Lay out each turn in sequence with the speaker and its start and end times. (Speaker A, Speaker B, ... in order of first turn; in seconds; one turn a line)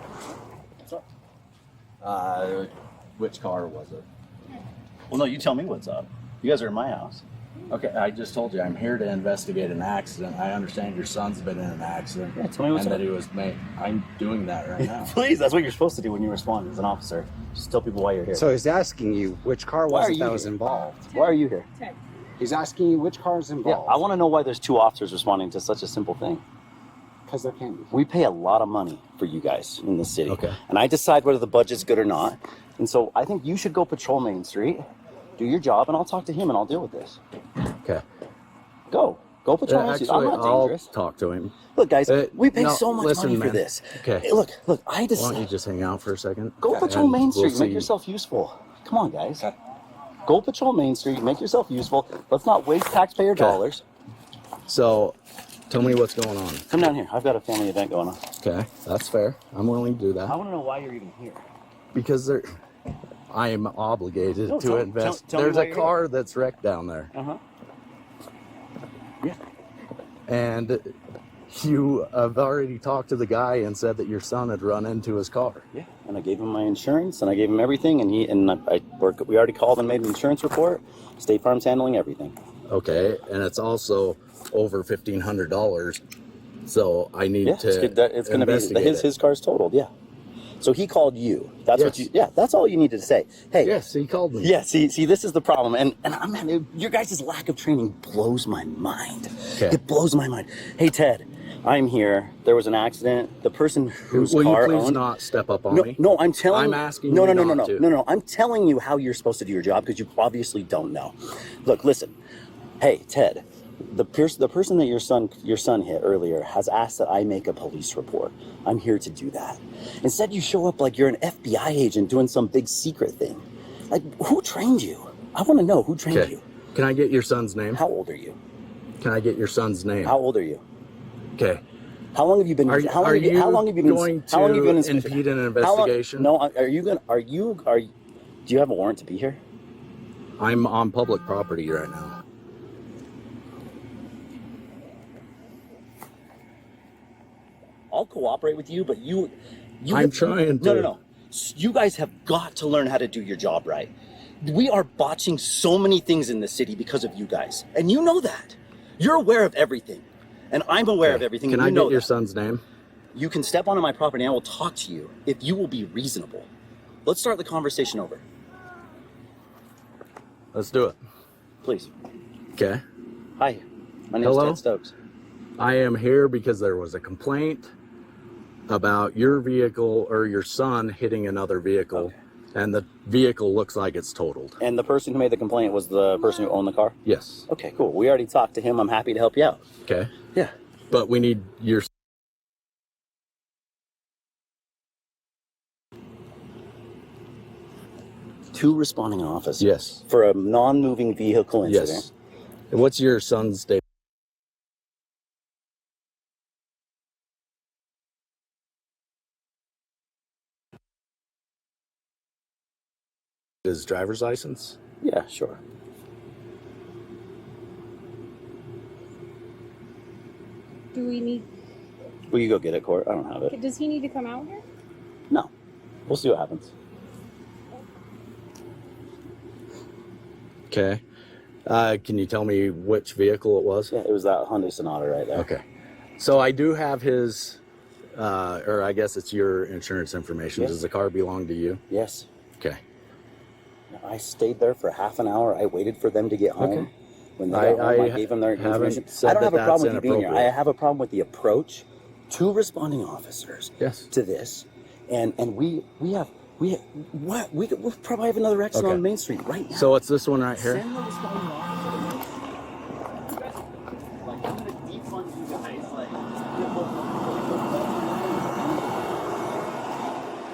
Speaker A: 2.0-4.1
Speaker B: 5.1-7.2
Speaker A: 7.7-15.2
Speaker B: 12.3-13.1
Speaker B: 14.8-18.5
Speaker C: 18.3-21.1
Speaker B: 19.9-20.5
Speaker B: 21.1-21.7
Speaker D: 21.2-22.0
Speaker C: 22.4-24.0
Speaker B: 23.6-26.4
Speaker C: 27.3-27.9
Speaker B: 27.9-34.8
Speaker A: 30.3-30.6
Speaker B: 35.4-37.2
Speaker B: 38.9-40.9
Speaker A: 39.7-41.5
Speaker B: 41.8-45.5
Speaker A: 42.1-44.3
Speaker A: 45.1-47.9
Speaker B: 46.6-49.5
Speaker B: 50.2-53.8
Speaker A: 53.4-53.6
Speaker A: 54.7-55.2
Speaker A: 55.7-56.8
Speaker B: 56.7-58.2
Speaker A: 58.4-60.4
Speaker B: 60.2-61.5
Speaker A: 61.9-62.5
Speaker A: 63.3-67.1
Speaker B: 64.5-65.9
Speaker B: 67.1-67.4
Speaker A: 70.3-70.9
Speaker A: 71.5-75.7
Speaker B: 75.7-82.4
Speaker A: 82.7-86.0
Speaker A: 86.6-89.1
Speaker B: 87.4-89.9
Speaker B: 90.6-93.8
Speaker A: 91.7-92.1
Speaker A: 93.6-94.5
Speaker B: 94.4-105.0
Speaker A: 104.1-107.9
Speaker B: 105.7-112.2
Speaker B: 112.8-126.4
Speaker A: 126.1-127.8
Speaker B: 127.7-128.4
Speaker A: 129.0-130.2
Speaker B: 130.0-130.6
Speaker A: 131.4-131.6
Speaker B: 132.1-137.9
Speaker A: 132.7-136.3
Speaker B: 138.5-139.4
Speaker A: 140.4-142.2
Speaker B: 147.9-162.1
Speaker A: 149.9-150.9
Speaker A: 161.0-162.6
Speaker B: 163.1-166.5
Speaker B: 167.1-168.2
Speaker A: 170.5-171.0
Speaker B: 171.6-171.9
Speaker A: 172.6-172.8
Speaker B: 173.4-174.9
Speaker A: 174.2-174.6
Speaker A: 175.6-177.7
Speaker A: 178.7-184.6
Speaker B: 184.6-187.0
Speaker A: 187.1-187.5
Speaker B: 187.5-189.6
Speaker A: 189.9-190.1
Speaker A: 190.9-191.9
Speaker B: 198.5-202.1
Speaker A: 199.6-200.0
Speaker A: 201.6-202.1
Speaker A: 202.7-203.8
Speaker A: 213.6-214.8
Speaker B: 215.0-215.6
Speaker D: 220.9-221.5
Speaker B: 222.3-223.6
Speaker D: 223.5-224.6
Speaker B: 226.1-226.7
Speaker A: 230.7-231.0
Speaker A: 231.7-233.9
Speaker B: 233.9-235.5
Speaker A: 235.3-235.6
Speaker A: 236.2-237.6
Speaker A: 238.2-241.8
Speaker B: 241.9-242.3
Speaker B: 243.9-259.9
Speaker A: 246.6-246.9
Speaker A: 247.5-250.5
Speaker A: 253.8-254.1
Speaker A: 258.7-259.0
Speaker A: 259.7-260.9
Speaker B: 260.6-262.4
Speaker B: 263.3-263.6
Speaker B: 264.2-269.9